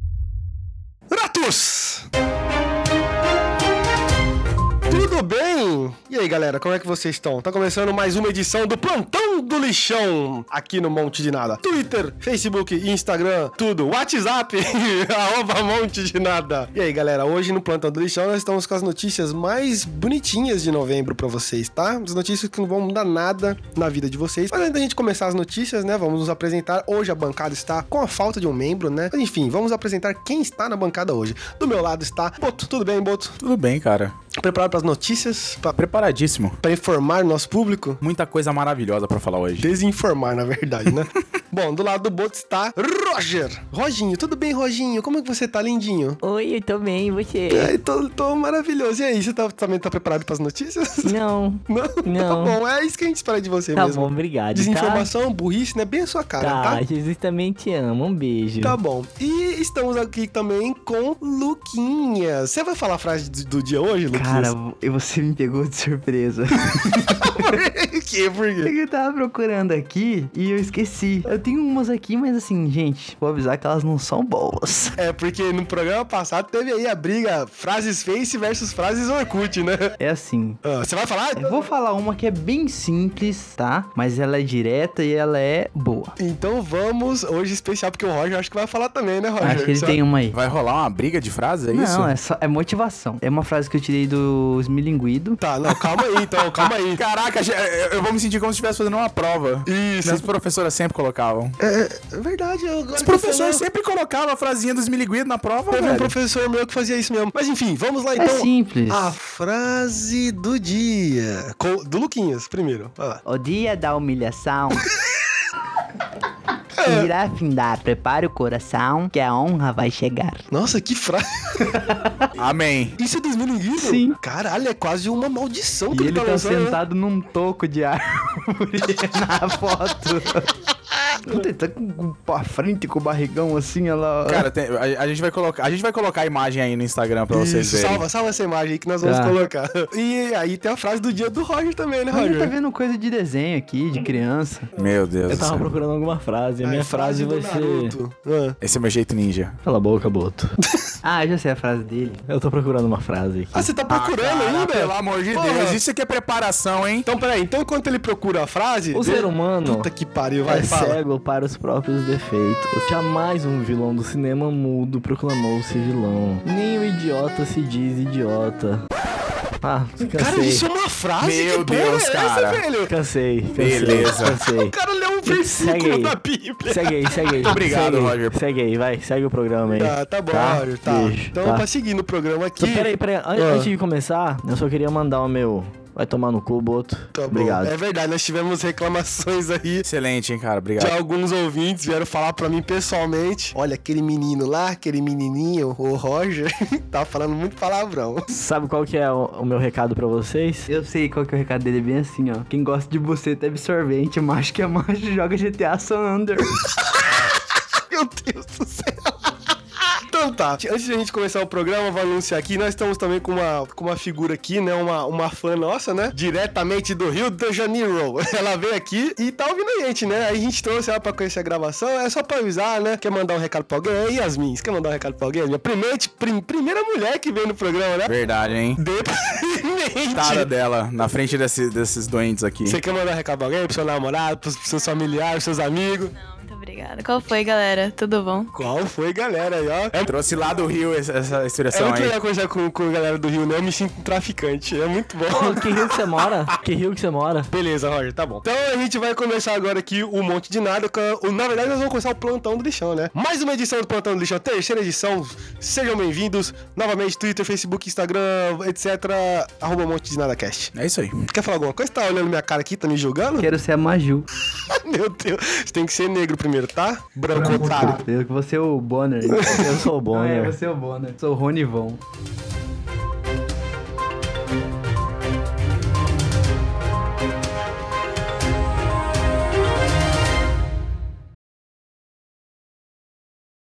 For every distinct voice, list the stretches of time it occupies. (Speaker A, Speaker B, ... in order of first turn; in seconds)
Speaker A: 1.1-2.0, 4.9-33.4, 34.3-35.8, 36.6-38.0, 39.6-46.2, 47.5-51.2, 51.7-56.8, 58.6-64.5, 66.7-68.7, 75.0-80.0, 80.6-81.6, 86.2-90.0, 95.4-97.0, 99.7-100.3, 101.6-103.7, 105.7-113.2, 116.8-117.1, 120.5-121.7, 123.0-126.8, 137.3-142.5, 146.6-148.6, 153.5-155.8, 157.1-161.0, 170.1-172.9, 174.5-177.6, 179.7-183.7, 187.2-189.8, 190.8-198.3, 206.9-207.2, 207.8-209.2, 209.9-228.2, 228.8-230.5, 232.6-236.1, 238.5-240.2, 241.7-245.9, 247.5-260.7, 261.2-263.5, 264.5-268.0, 269.3-269.8
Speaker B: 33.4-34.1, 35.8-36.6, 38.0-39.7, 90.3-92.1, 95.7-101.6, 103.0-106.1, 122.4-123.0, 134.3-138.0, 144.8-145.7, 148.6-149.6, 153.9-157.1, 171.2-172.6, 173.6-174.4, 177.4-178.3, 189.8-190.9, 228.1-228.8, 230.1-232.8, 240.0-242.1, 260.7-261.1
Speaker C: 46.2-47.7, 51.0-52.6, 53.8-55.1, 56.4-58.8, 145.3-147.9, 149.7-150.6, 152.3-153.7, 158.9-159.9, 160.5-168.8, 169.6-170.7, 172.9-176.2, 176.7-181.7, 182.6-187.7, 198.3-200.7, 245.3-247.5, 269.4-270.6
Speaker D: 64.1-67.3, 68.6-75.0, 80.0-80.6, 81.4-86.1, 89.4-90.4, 91.7-95.4, 108.2-109.1, 113.3-114.9, 116.8-120.5, 121.7-122.1, 123.8-124.2, 125.9-130.5, 131.2-134.5, 139.0-139.3, 142.1-144.7, 151.0-152.2, 200.7-206.6, 263.4-264.3, 267.2-272.0
Speaker E: 236.1-238.5